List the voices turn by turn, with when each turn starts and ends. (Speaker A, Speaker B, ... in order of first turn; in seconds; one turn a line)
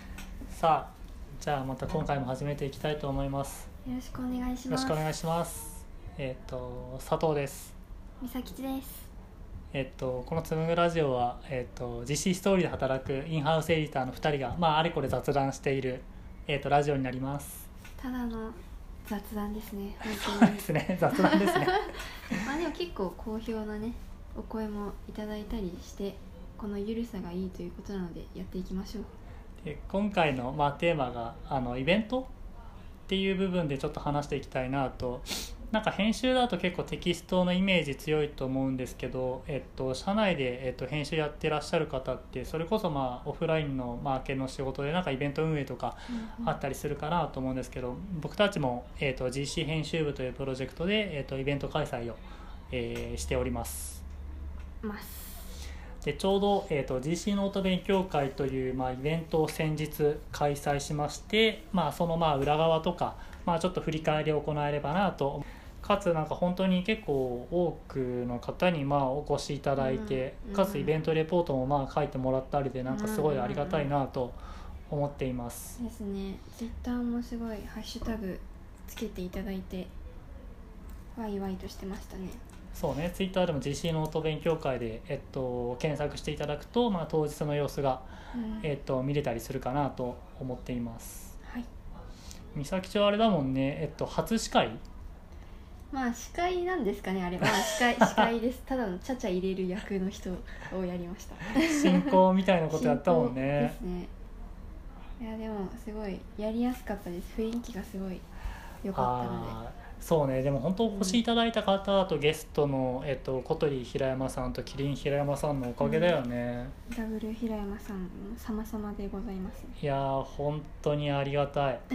Speaker A: 0.5-3.7
Speaker B: 3.9-5.1
Speaker A: 4.7-7.8
Speaker B: 8.2-9.1
Speaker A: 9.7-17.7
Speaker B: 18.0-29.1
Speaker A: 20.1-22.4
Speaker A: 29.6-32.3
Speaker A: 33.1-54.0
Speaker B: 46.1-46.6
Speaker B: 54.8-55.6
Speaker A: 56.0-75.8
Speaker B: 69.8-70.9
Speaker B: 72.9-73.9
Speaker B: 75.8-79.9
Speaker B: 81.2-82.4
Speaker A: 82.7-88.1
Speaker B: 88.3-88.7
Speaker A: 88.6-91.4
Speaker B: 91.4-91.7
Speaker A: 92.5-94.8
Speaker B: 95.9-102.2
Speaker A: 97.4-98.2
Speaker A: 101.5-103.8
Speaker B: 102.7-104.1
Speaker B: 105.2-108.2
Speaker B: 108.8-109.6
Speaker A: 109.0-116.7
Speaker B: 110.9-111.2
Speaker B: 115.8-116.2
Speaker B: 116.9-119.8
Speaker A: 119.8-121.8